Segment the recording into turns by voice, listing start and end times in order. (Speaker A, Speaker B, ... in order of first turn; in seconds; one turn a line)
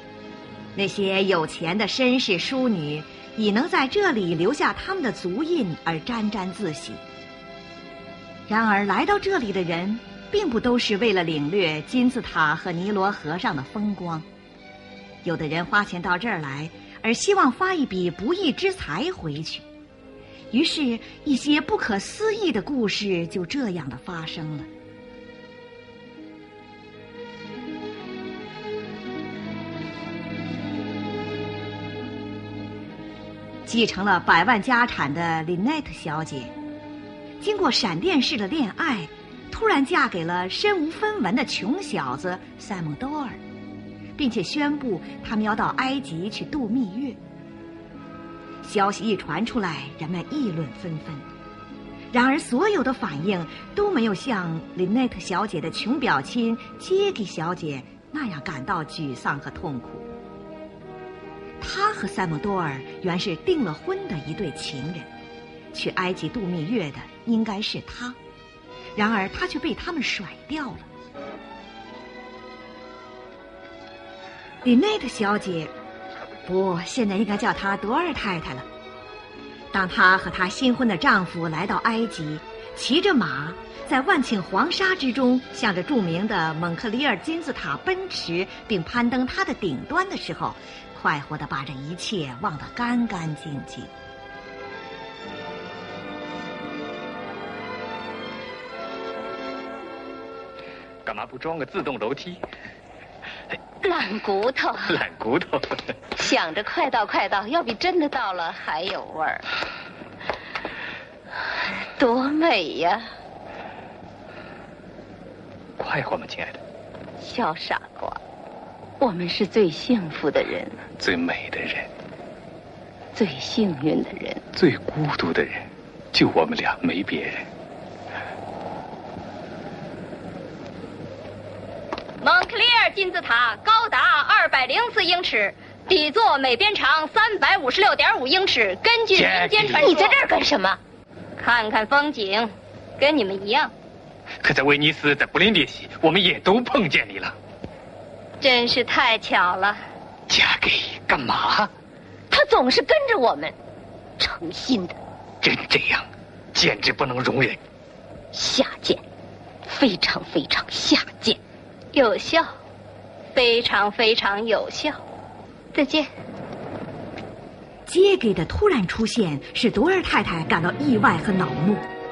Speaker A: 0.8-7.0
Speaker A: 8.5-14.3
Speaker A: 15.2-19.6
Speaker A: 20.5-24.7
Speaker A: 33.6-36.5
Speaker A: 37.4-43.4
Speaker A: 44.2-47.2
Speaker A: 48.6-51.3
Speaker A: 52.1-60.1
Speaker A: 61.6-65.1
Speaker A: 65.7-68.2
Speaker A: 69.0-70.9
Speaker A: 74.6-75.7
Speaker A: 76.5-78.7
Speaker A: 79.7-93.9
Speaker B: 101.0-102.4
Speaker C: 103.8-104.9
Speaker B: 104.9-105.8
Speaker C: 106.2-109.4
Speaker C: 112.0-113.1
Speaker B: 115.8-116.6
Speaker C: 117.2-118.2
Speaker C: 119.0-120.8
Speaker B: 121.0-121.9
Speaker C: 123.2-124.4
Speaker B: 124.5-127.5
Speaker D: 132.2-140.2
Speaker B: 139.1-139.9
Speaker C: 139.8-140.8
Speaker D: 141.4-143.7
Speaker B: 144.4-147.3
Speaker D: 148.4-149.8
Speaker B: 150.3-151.7
Speaker C: 152.3-153.5
Speaker C: 154.2-154.9
Speaker B: 155.4-157.6
Speaker C: 158.3-159.0
Speaker C: 159.7-161.4
Speaker D: 161.9-162.5
Speaker D: 163.3-165.0
Speaker D: 165.7-166.1
Speaker A: 167.9-171.9